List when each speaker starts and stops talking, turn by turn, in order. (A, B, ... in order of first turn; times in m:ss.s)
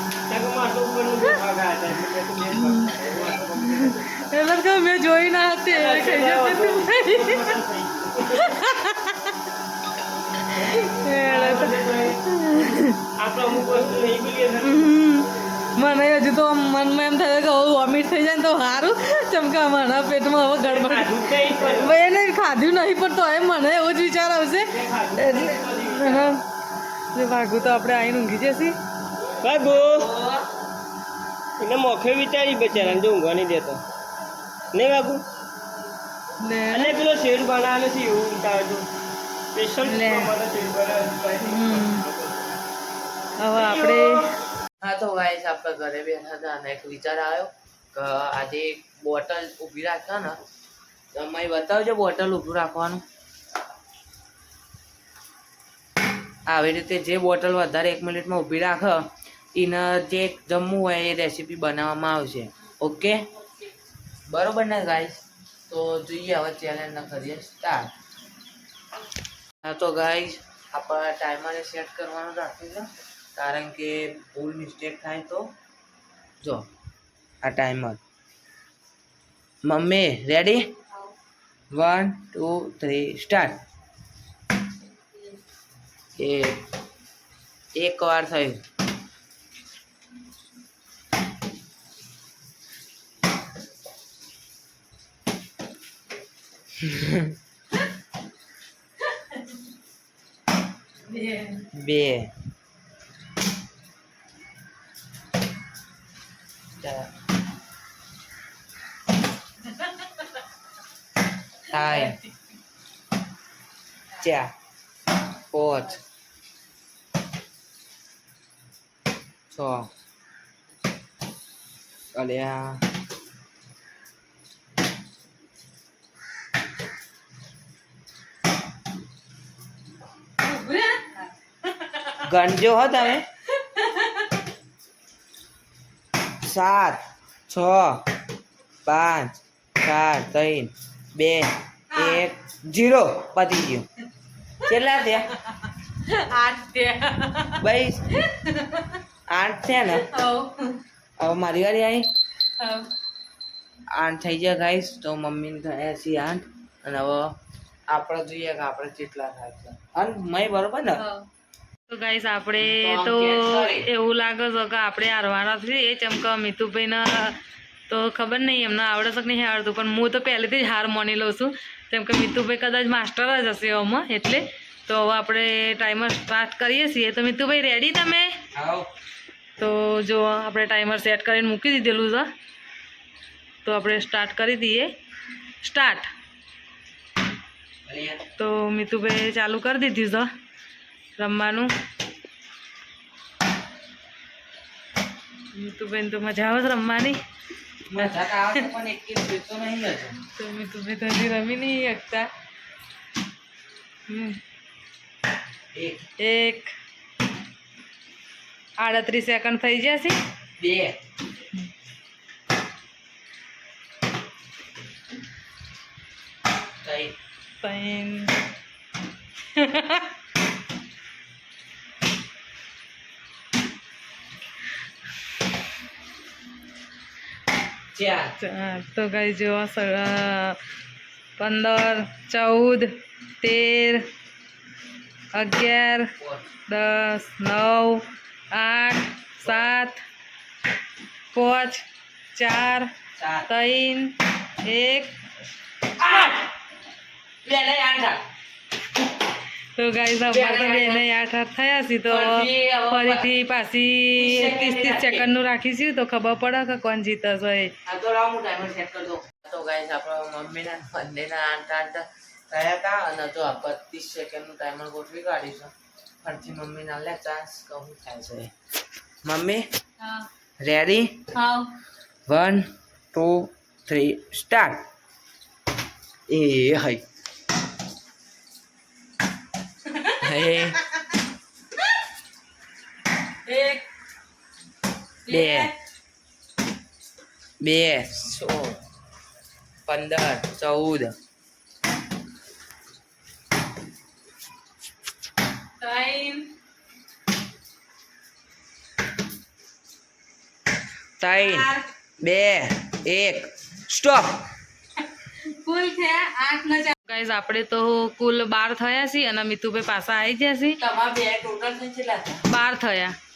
0:00.3-0:04.2 A
0:02.6-0:02.9 B
0:03.6-0:07.6 B
0:05.7-0:08.6 A
0:08.3-0:09.3 B
0:10.5-0:13.0 B
0:11.2-0:14.9 A
0:14.6-0:26.4 B
0:20.6-0:21.9 A
0:24.7-0:26.4 A
0:27.1-0:28.8 B
0:29.4-0:30.1 A
0:29.7-0:30.4 C
0:31.6-0:33.8 A
0:34.7-0:35.2 A
0:36.4-0:37.0 B
0:36.7-0:38.9 A
0:39.5-0:42.4 A
0:39.8-0:40.3 B
0:41.4-0:42.0 B
0:43.4-0:44.2 B
0:43.5-0:44.2 A
0:44.8-0:50.4 C
0:51.1-0:53.0 C
0:56.4-1:03.2 C
1:04.3-1:07.9 C
1:09.6-1:15.5 C
1:16.4-1:16.7 C
1:17.4-1:18.0 C
1:19.6-1:20.7 C
1:21.7-1:23.6 C
1:26.2-1:26.6 C
1:27.7-1:28.6 C
1:36.8-1:37.4 C
1:41.1-1:41.6 B
1:41.7-1:42.3 C
1:46.8-1:47.1 C
1:49.7-1:50.0 B
1:51.7-1:52.2 C
1:51.7-1:52.3 B
1:54.2-1:54.5 C
1:55.5-1:56.0 C
1:59.5-1:59.9 C
2:02.1-2:02.8 C
2:10.4-2:12.2 B
2:12.2-2:13.3 C
2:13.5-2:14.3 B
2:16.4-2:18.1 C
2:18.8-2:23.9 C
2:21.9-2:22.2 B
2:24.6-2:25.3 C
2:26.0-2:29.0 B
2:27.6-2:28.0 C
2:29.3-2:30.0 C
2:29.9-2:30.8 B
2:31.2-2:32.1 C
2:32.6-2:32.9 B
2:33.9-2:37.3 C
2:37.9-2:41.0 C
2:40.9-2:41.2 B
2:41.9-2:58.4 B
2:42.6-2:43.9 C
2:58.5-2:58.9 C
2:59.6-3:02.3 B
3:03.6-3:04.9 B
3:05.6-3:06.1 B
3:07.8-3:08.2 C
3:08.4-3:10.3 B
3:11.2-3:11.7 B
3:15.5-3:17.2 B
3:17.9-3:20.2 C
3:18.0-3:18.6 B
3:20.4-3:22.3 B
3:24.1-3:24.4 B
3:25.7-3:26.0 C
3:26.2-3:26.7 B
3:28.8-3:30.2 B
3:30.6-3:31.0 C
3:36.8-3:37.2 C
3:37.6-3:38.3 B
3:39.5-3:40.1 B
3:47.9-3:48.3 C
3:48.4-3:50.6 B
3:51.4-3:54.1 B
3:55.3-3:56.1 B
3:56.2-3:56.4 C
3:56.7-4:00.0 B
4:01.3-4:01.8 B
4:02.3-4:02.9 B
4:03.2-4:03.5 C
4:03.5-4:05.2 B
4:06.0-4:06.5 C
4:07.4-4:08.2 C
4:09.8-4:17.7 B
4:10.3-4:11.0 C
4:12.1-4:13.3 C
4:14.2-4:15.3 C
4:17.8-4:28.5 C
4:29.2-4:29.7 C
4:30.0-4:30.3 B
4:30.6-4:31.2 C
4:31.3-4:31.7 B
4:32.2-4:34.8 C
4:36.3-4:37.0 C
4:39.9-4:40.2 B
4:40.2-4:40.8 C
4:43.4-4:43.8 B
4:45.2-4:45.7 B
4:45.3-4:45.7 C
4:47.6-4:48.8 C
4:49.8-4:51.1 C
4:55.8-4:56.5 B
5:01.2-5:04.4 C
5:01.3-5:01.8 B
5:05.4-5:10.8 B
5:10.8-5:12.4 C
5:12.5-5:13.2 B